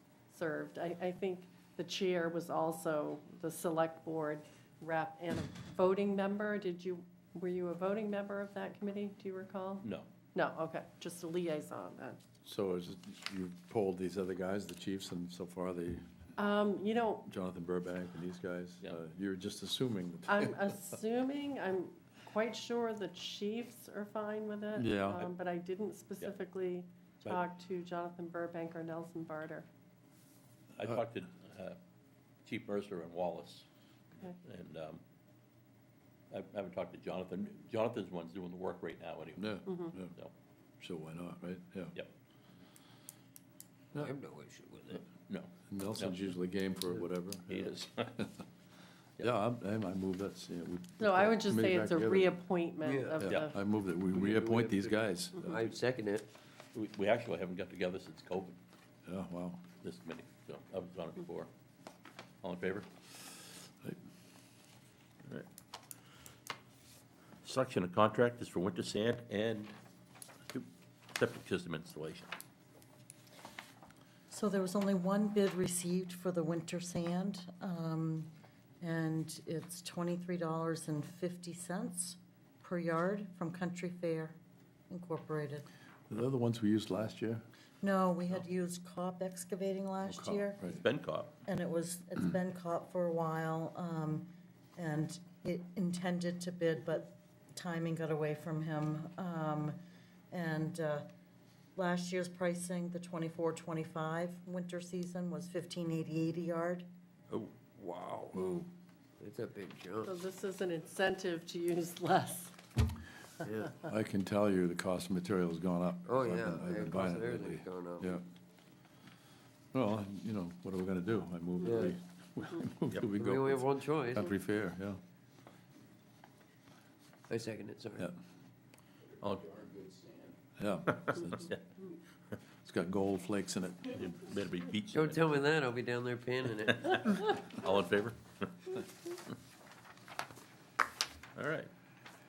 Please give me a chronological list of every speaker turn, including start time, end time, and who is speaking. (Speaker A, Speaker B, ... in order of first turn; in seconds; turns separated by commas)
Speaker A: 0.3-12.2, Speaker B: 12.4-16.1, Speaker A: 16.4-17.2, Speaker B: 17.2-20.6, Speaker A: 20.3-29.6, Speaker B: 24.8-25.2, Speaker C: 30.8-31.8, Speaker C: 32.4-35.0, Speaker C: 36.3-39.6, Speaker B: 39.4-40.1, Speaker A: 39.6-40.0, Speaker B: 40.8-42.0, Speaker D: 44.0-45.0, Speaker C: 45.1-46.2, Speaker B: 45.7-48.3, Speaker C: 47.5-48.2, Speaker B: 49.2-52.3, Speaker A: 51.0-53.6, Speaker D: 52.8-53.2, Speaker B: 53.2-55.5, Speaker D: 54.1-56.3, Speaker C: 56.7-58.6, Speaker B: 59.0-59.6, Speaker C: 59.8-61.5, Speaker C: 62.4-62.9, Speaker C: 67.4-69.7, Speaker C: 70.5-72.3, Speaker E: 74.3-84.4, Speaker E: 84.9-85.7, Speaker B: 86.1-87.4, Speaker E: 87.8-90.6, Speaker B: 90.0-90.8, Speaker C: 90.6-91.3, Speaker E: 91.5-99.8, Speaker E: 100.3-101.1, Speaker E: 101.8-106.8, Speaker D: 107.3-108.6, Speaker A: 108.3-108.7, Speaker D: 109.2-110.2, Speaker A: 110.0-112.5, Speaker D: 113.5-113.8, Speaker B: 113.8-118.2, Speaker D: 116.0-118.2, Speaker B: 119.7-125.0, Speaker D: 121.6-122.0, Speaker D: 123.1-124.3, Speaker D: 127.3-128.1, Speaker C: 129.2-130.3, Speaker B: 130.6-131.5, Speaker C: 130.8-131.6, Speaker B: 132.6-134.0, Speaker C: 133.9-135.4, Speaker D: 134.9-137.1, Speaker C: 136.7-138.8, Speaker C: 141.3-141.7